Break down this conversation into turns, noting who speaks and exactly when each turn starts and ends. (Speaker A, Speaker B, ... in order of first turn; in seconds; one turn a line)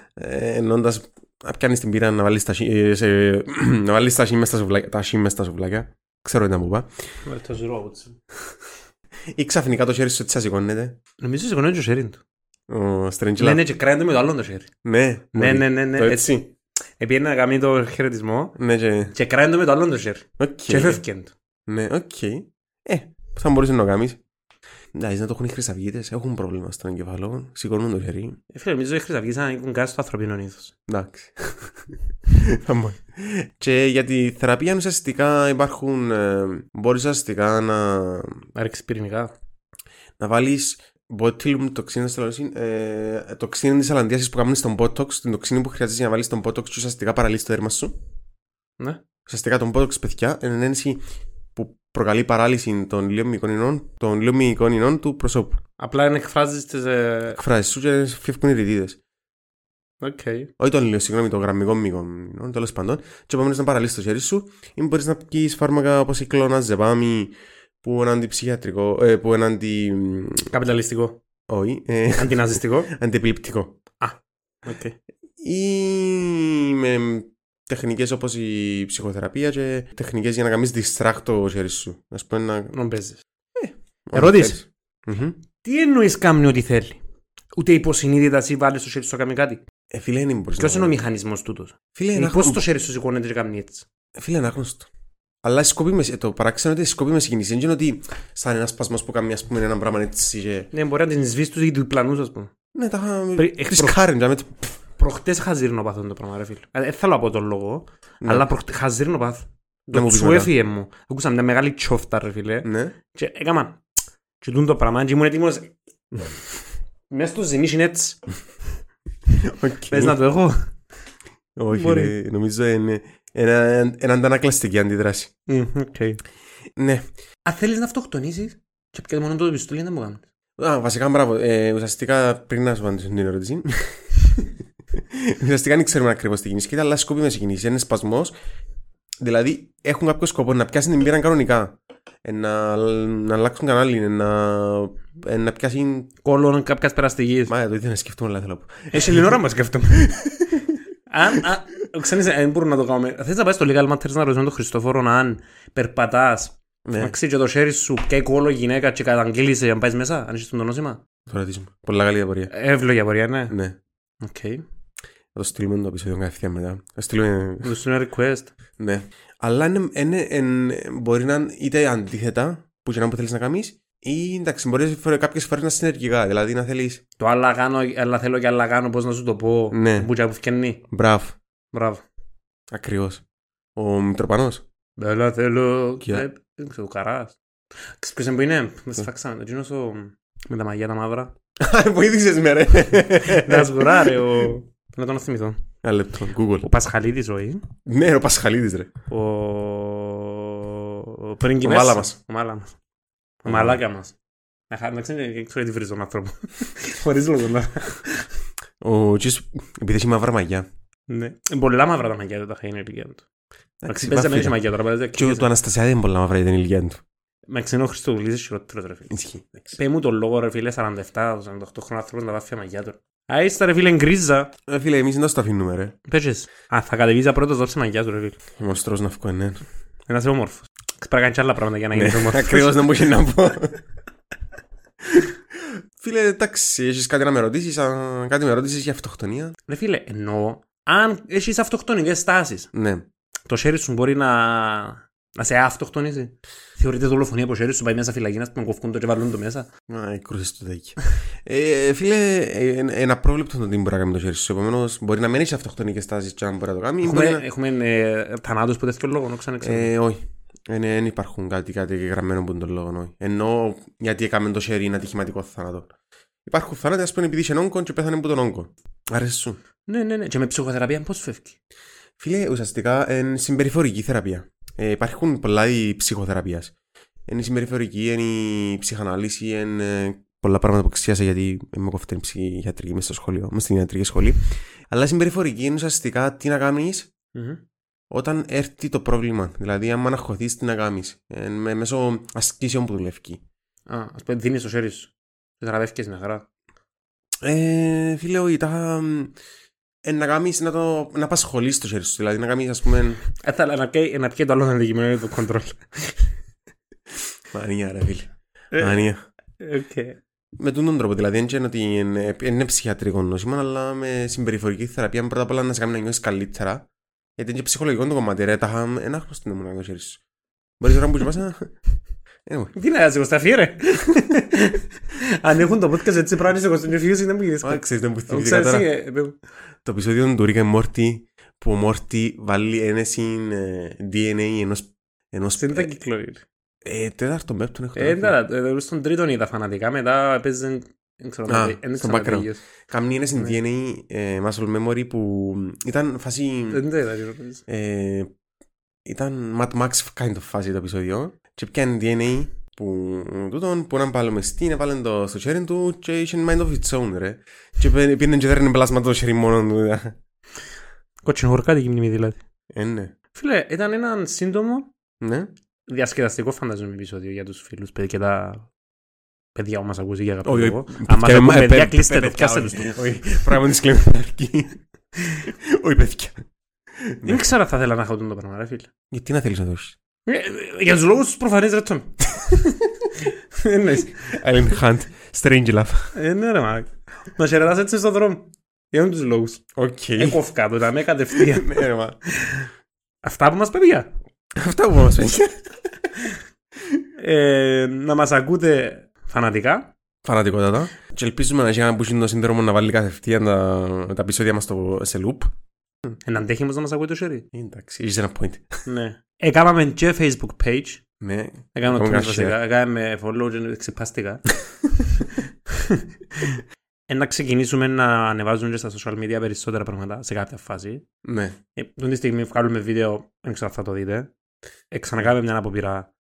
Speaker A: 0.2-7.0
Speaker B: 7.2-8.2
Speaker A: 9.3-11.0
Speaker B: 11.2-12.2
Speaker A: 12.7-13.6
Speaker B: 13.4-14.7
Speaker A: 14.8-16.5
Speaker B: 15.3-16.4
Speaker B: 17.0-18.6
Speaker A: 18.6-19.1
Speaker B: 19.1-21.3
Speaker A: 20.4-21.0
Speaker A: 21.7-24.2
Speaker A: 24.9-28.4
Speaker B: 28.5-30.8
Speaker A: 30.9-38.5
Speaker B: 38.5-39.3
Speaker A: 40.2-48.0
Speaker A: 49.3-51.0
Speaker A: 51.5-55.6
Speaker B: 55.8-57.4
Speaker A: 57.3-59.0
Speaker B: 60.0-60.5
Speaker A: 60.6-70.5
Speaker B: 70.5-71.2
Speaker A: 71.5-73.8
Speaker B: 72.2-72.9
Speaker B: 74.0-75.0
Speaker A: 75.4-82.8
Speaker B: 82.7-83.2
Speaker A: 83.6-85.4
Speaker B: 84.1-84.6
Speaker B: 85.6-87.0
Speaker B: 87.6-89.6
Speaker A: 89.9-91.0
Speaker B: 90.6-93.9
Speaker A: 92.0-92.6
Speaker A: 94.2-94.9
Speaker A: 95.4-100.7
Speaker B: 100.7-102.5
Speaker A: 102.7-104.7
Speaker B: 103.4-104.0
Speaker B: 105.0-113.8
Speaker A: 109.9-110.5
Speaker A: 112.6-113.0
Speaker B: 114.4-116.4
Speaker B: 117.1-118.2
Speaker A: 119.4-120.2
Speaker B: 119.9-120.8
Speaker A: 121.6-125.3
Speaker B: 121.7-122.1
Speaker B: 125.5-126.2
Speaker A: 126.8-127.1
Speaker B: 127.5-130.2
Speaker A: 130.6-134.1
Speaker A: 135.1-138.3
Speaker A: 139.2-146.1
Speaker B: 146.2-147.5
Speaker A: 147.5-149.3
Speaker B: 148.9-150.2
Speaker A: 150.1-150.7
Speaker B: 151.1-161.0
Speaker A: 156.9-157.1
Speaker A: 161.3-162.5
Speaker B: 162.5-163.6
Speaker A: 163.5-163.8
Speaker B: 164.2-164.7
Speaker A: 165.3-167.8
Speaker B: 167.6-168.5
Speaker A: 168.8-177.0
Speaker B: 177.2-180.8
Speaker A: 179.7-180.1
Speaker A: 180.9-181.4
Speaker B: 181.7-182.0
Speaker A: 182.7-183.2
Speaker A: 183.8-184.6
Speaker B: 185.0-187.4
Speaker B: 188.0-191.3
Speaker A: 191.6-194.4
Speaker B: 193.2-195.6
Speaker A: 195.8-196.7
Speaker B: 196.6-197.6
Speaker A: 197.9-198.9
Speaker B: 199.1-202.8
Speaker A: 201.6-202.2
Speaker B: 203.4-204.2
Speaker A: 203.5-203.8
Speaker B: 204.7-208.3
Speaker A: 208.8-210.7
Speaker B: 211.1-213.2
Speaker A: 213.8-214.6
Speaker B: 213.9-215.5
Speaker A: 215.2-217.0
Speaker B: 217.5-219.1
Speaker A: 219.1-219.8
Speaker B: 219.7-224.5
Speaker A: 224.7-225.9
Speaker B: 226.1-228.4
Speaker A: 228.6-229.6
Speaker B: 230.1-232.8
Speaker A: 231.9-233.8
Speaker A: 236.0-239.6
Speaker B: 239.7-242.7
Speaker A: 242.7-243.1
Speaker B: 243.5-249.7
Speaker A: 249.9-257.4
Speaker B: 257.0-259.9
Speaker A: 259.6-265.9
Speaker A: 266.5-269.6
Speaker B: 269.9-271.6
Speaker A: 272.2-276.7
Speaker A: 277.3-287.1
Speaker B: 287.3-287.6
Speaker A: 288.1-293.4
Speaker B: 293.9-296.5
Speaker A: 297.4-299.3
Speaker A: 300.1-303.2
Speaker B: 303.4-306.3
Speaker A: 307.5-309.2
Speaker B: 308.7-309.1
Speaker B: 309.6-310.2
Speaker A: 310.6-320.2
Speaker A: 320.8-321.7
Speaker A: 322.5-322.7
Speaker B: 322.7-329.4
Speaker A: 327.6-328.9
Speaker A: 329.9-335.9
Speaker B: 335.6-336.4
Speaker A: 336.9-338.4
Speaker B: 337.9-342.6
Speaker A: 341.5-346.8
Speaker B: 346.7-347.6
Speaker A: 347.7-348.3
Speaker A: 349.1-360.2
Speaker B: 361.2-362.4
Speaker A: 362.7-363.1
Speaker B: 363.3-364.9
Speaker A: 365.2-365.5
Speaker B: 365.9-368.7
Speaker B: 369.6-373.0
Speaker A: 370.4-376.4
Speaker A: 377.0-377.4
Speaker B: 377.2-378.9
Speaker A: 379.1-380.0
Speaker B: 380.3-384.3
Speaker A: 384.3-386.1
Speaker B: 386.1-389.6
Speaker A: 389.8-390.4
Speaker B: 390.2-392.7
Speaker A: 391.4-392.2
Speaker B: 393.2-394.1
Speaker A: 394.6-395.6
Speaker B: 397.2-399.9
Speaker A: 400.2-405.5
Speaker B: 406.2-407.5
Speaker A: 407.5-408.9
Speaker B: 408.9-411.0
Speaker A: 411.2-412.6
Speaker B: 411.8-414.5
Speaker B: 415.0-421.0
Speaker A: 421.2-421.6
Speaker B: 421.8-424.3
Speaker B: 424.9-426.1